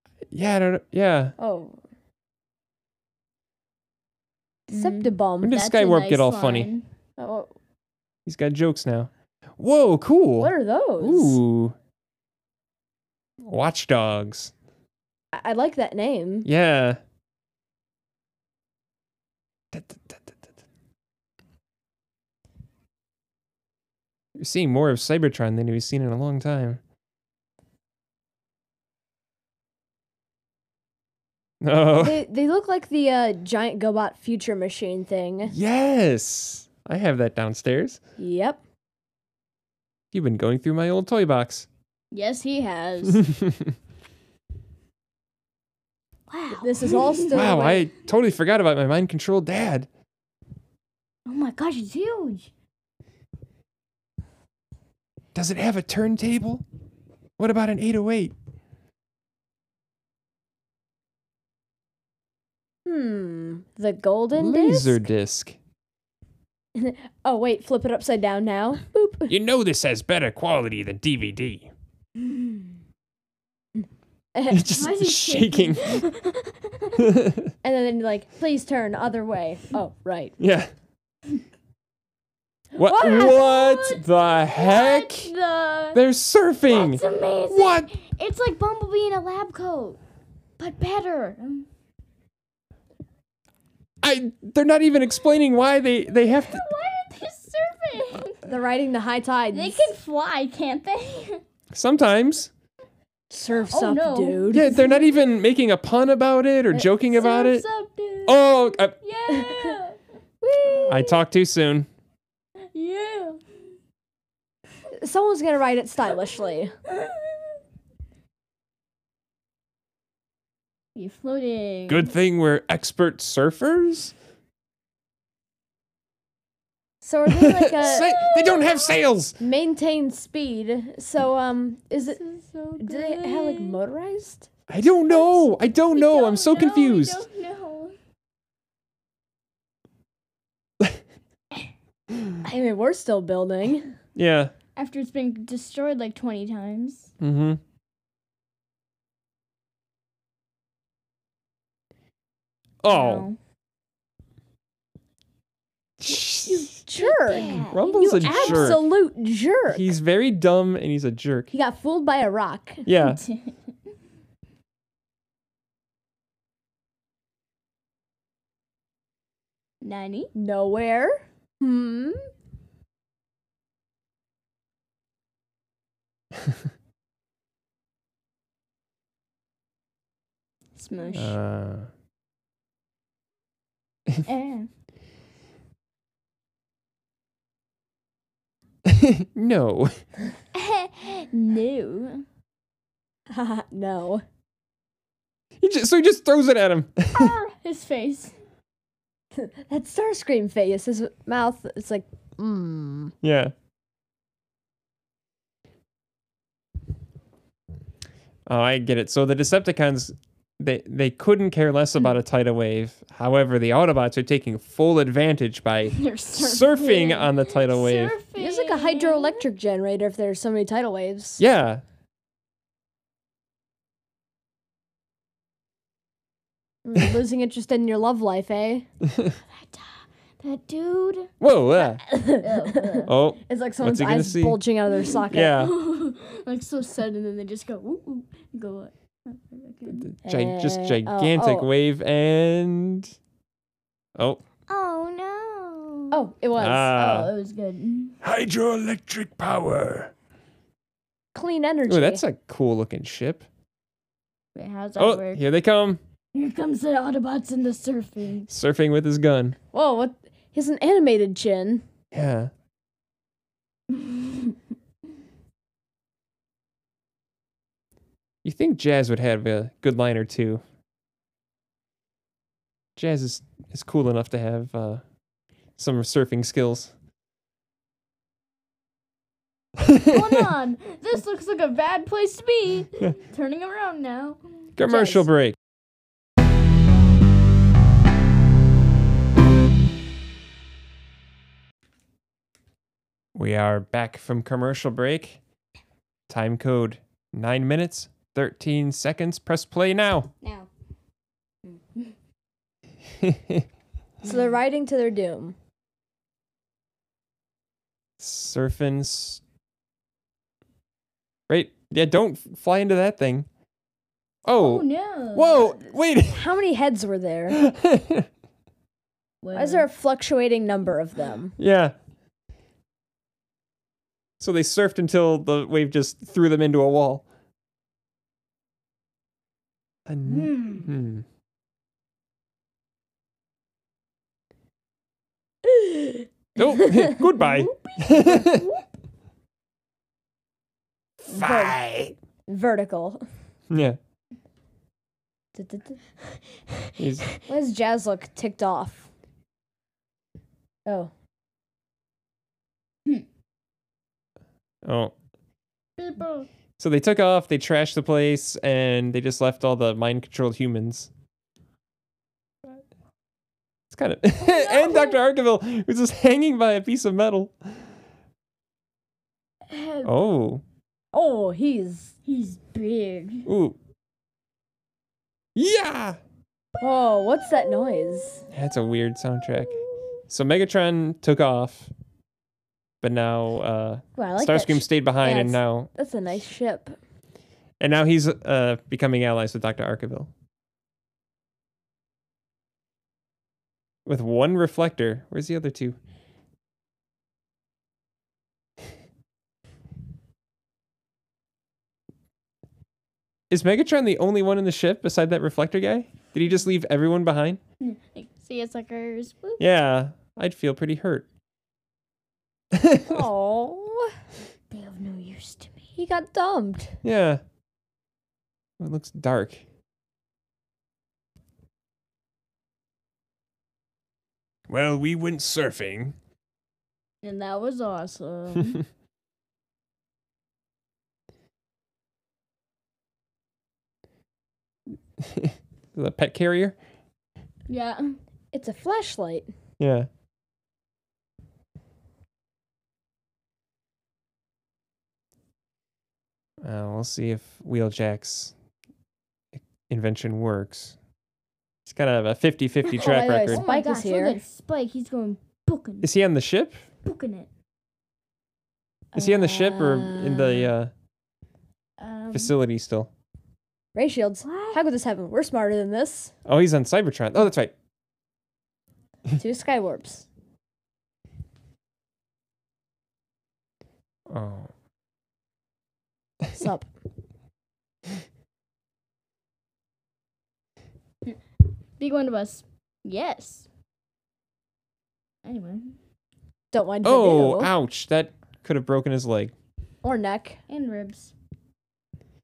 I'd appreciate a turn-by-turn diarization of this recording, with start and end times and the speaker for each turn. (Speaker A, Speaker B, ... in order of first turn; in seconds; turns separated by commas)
Speaker A: 0.3-1.3, Speaker B: 1.4-1.8, Speaker B: 4.7-5.6, Speaker C: 4.7-6.9, Speaker A: 5.4-6.7, Speaker B: 7.2-7.5, Speaker A: 8.3-11.8, Speaker B: 10.4-11.4, Speaker A: 13.4-14.5, Speaker B: 15.3-16.5, Speaker A: 16.4-17.0, Speaker A: 19.7-20.4, Speaker A: 24.4-26.8, Speaker A: 31.6-32.2, Speaker B: 32.0-35.5, Speaker A: 35.5-38.0, Speaker B: 38.2-38.6, Speaker A: 40.1-41.7, Speaker C: 42.1-43.2, Speaker A: 43.2-43.5, Speaker C: 46.3-47.7, Speaker B: 46.6-47.9, Speaker A: 47.3-49.9, Speaker C: 51.3-52.5, Speaker A: 55.4-56.6, Speaker A: 57.4-58.3, Speaker B: 62.9-65.0, Speaker A: 64.3-65.6, Speaker B: 66.8-69.3, Speaker A: 69.3-71.7, Speaker C: 72.2-72.6, Speaker B: 74.3-74.7, Speaker A: 74.5-76.0, Speaker C: 74.7-77.1, Speaker A: 77.0-77.5, Speaker B: 77.6-80.3, Speaker A: 80.4-80.7, Speaker A: 82.8-85.3, Speaker B: 82.9-83.3, Speaker C: 82.9-86.0, Speaker A: 85.9-87.9, Speaker C: 86.7-90.0, Speaker C: 90.6-91.7, Speaker A: 94.0-96.6, Speaker C: 96.4-98.5, Speaker B: 98.5-99.9, Speaker C: 99.5-101.4, Speaker A: 101.7-102.5, Speaker B: 103.3-104.7, Speaker C: 103.7-105.1, Speaker A: 104.5-107.7, Speaker C: 107.1-111.2, Speaker A: 108.3-108.9, Speaker B: 109.3-109.8, Speaker B: 110.6-111.0, Speaker A: 110.9-111.9, Speaker C: 112.7-113.4, Speaker B: 114.9-116.7, Speaker C: 116.9-117.6, Speaker C: 121.0-122.1, Speaker A: 121.9-124.1, Speaker B: 127.0-128.1, Speaker A: 127.3-129.4, Speaker C: 127.8-129.0, Speaker B: 129.4-132.2, Speaker C: 132.0-133.8, Speaker B: 132.8-134.5, Speaker A: 134.7-137.2, Speaker C: 135.1-137.9, Speaker B: 142.4-143.9, Speaker A: 144.2-144.5, Speaker C: 144.8-147.1, Speaker A: 147.2-147.6, Speaker A: 152.8-153.3, Speaker C: 152.9-153.4, Speaker A: 156.0-156.8, Speaker B: 156.5-159.9, Speaker C: 157.0-158.8, Speaker A: 157.7-158.8, Speaker A: 159.7-161.5, Speaker B: 161.5-162.8, Speaker A: 162.8-163.2, Speaker C: 163.2-163.6, Speaker C: 169.8-170.3, Speaker B: 170.3-172.3, Speaker C: 180.8-181.4, Speaker A: 181.2-181.9, Speaker C: 184.2-184.7, Speaker A: 188.9-190.0, Speaker C: 190.5-192.2, Speaker B: 193.3-194.2, Speaker A: 195.6-197.4, Speaker C: 197.1-198.3, Speaker B: 199.3-203.1, Speaker A: 203.2-203.5, Speaker A: 208.5-218.2, Speaker C: 215.9-219.4, Speaker B: 218.4-221.4, Speaker A: 221.4-221.8, Speaker B: 226.8-228.9, Speaker A: 229.1-229.3, Speaker C: 229.5-231.3, Speaker A: 231.4-232.0, Speaker B: 232.1-235.6, Speaker C: 232.4-233.1, Speaker A: 233.1-234.6, Speaker A: 235.3-235.7, Speaker C: 235.5-240.1, Speaker A: 239.9-243.1, Speaker B: 240.2-241.7, Speaker C: 244.7-246.2, Speaker B: 246.1-246.9, Speaker A: 246.6-247.3, Speaker C: 246.8-248.2, Speaker A: 248.2-250.1, Speaker B: 251.3-252.2, Speaker A: 251.9-253.4, Speaker C: 254.6-255.4, Speaker A: 255.0-256.0, Speaker C: 256.3-258.5, Speaker A: 258.5-259.6, Speaker B: 259.7-261.9, Speaker A: 262.1-262.5, Speaker C: 263.9-264.6, Speaker A: 268.4-270.6, Speaker A: 273.0-275.0, Speaker A: 275.8-276.9, Speaker A: 279.8-280.3, Speaker C: 280.0-284.7, Speaker A: 284.8-285.6, Speaker B: 284.9-285.3, Speaker A: 293.4-295.4, Speaker A: 296.3-300.3, Speaker C: 300.4-300.7, Speaker C: 301.7-302.1, Speaker A: 303.2-303.6, Speaker B: 304.2-305.6, Speaker A: 308.2-309.4, Speaker A: 311.5-313.5, Speaker A: 314.4-316.5, Speaker C: 314.6-315.9, Speaker B: 316.3-317.6, Speaker A: 317.5-318.3, Speaker C: 319.4-319.9, Speaker B: 319.5-321.6, Speaker A: 321.6-321.9, Speaker A: 324.4-327.2, Speaker A: 330.1-331.2, Speaker C: 330.3-330.9, Speaker B: 335.6-336.2, Speaker A: 336.6-338.7, Speaker C: 337.4-338.8, Speaker B: 341.3-341.8, Speaker A: 341.3-342.1, Speaker B: 342.5-343.2, Speaker A: 343.7-344.0, Speaker B: 345.5-346.0, Speaker C: 346.2-347.4, Speaker A: 347.0-347.3, Speaker B: 347.5-349.1, Speaker B: 350.9-351.1, Speaker A: 354.9-355.1, Speaker C: 356.0-356.5, Speaker A: 356.8-361.1, Speaker A: 363.9-367.7, Speaker C: 364.4-365.2, Speaker C: 369.7-370.1, Speaker A: 370.0-370.6, Speaker B: 371.1-372.1, Speaker C: 372.3-373.5, Speaker A: 373.5-373.8, Speaker A: 375.6-376.2, Speaker B: 376.8-378.5, Speaker A: 378.5-379.8, Speaker A: 380.3-381.9, Speaker A: 383.0-385.9, Speaker B: 384.2-386.9, Speaker A: 387.8-390.3, Speaker A: 394.1-396.0, Speaker A: 403.5-407.6, Speaker C: 407.8-409.6, Speaker A: 409.6-411.3, Speaker A: 412.7-413.2, Speaker B: 413.1-414.1, Speaker C: 414.7-415.8, Speaker B: 416.0-417.0, Speaker A: 417.0-417.4, Speaker A: 418.8-419.6, Speaker A: 424.7-426.1, Speaker C: 427.2-428.8, Speaker A: 435.2-436.8, Speaker C: 437.7-438.2, Speaker B: 438.5-439.5, Speaker A: 439.8-440.1, Speaker A: 446.6-448.5, Speaker A: 449.6-451.0, Speaker A: 451.9-453.6, Speaker C: 452.9-456.1, Speaker B: 452.9-454.4, Speaker A: 456.0-456.8, Speaker C: 457.0-457.5, Speaker B: 459.1-460.7, Speaker A: 459.1-460.9, Speaker C: 462.0-462.5, Speaker A: 462.3-463.1, Speaker B: 463.9-466.3, Speaker C: 464.4-464.8, Speaker A: 466.5-467.7, Speaker B: 469.4-470.3, Speaker A: 474.3-474.7, Speaker B: 476.6-476.9, Speaker C: 482.0-483.7, Speaker C: 485.4-486.0, Speaker B: 486.7-487.7, Speaker A: 487.0-489.5, Speaker B: 490.0-490.6, Speaker C: 490.7-491.3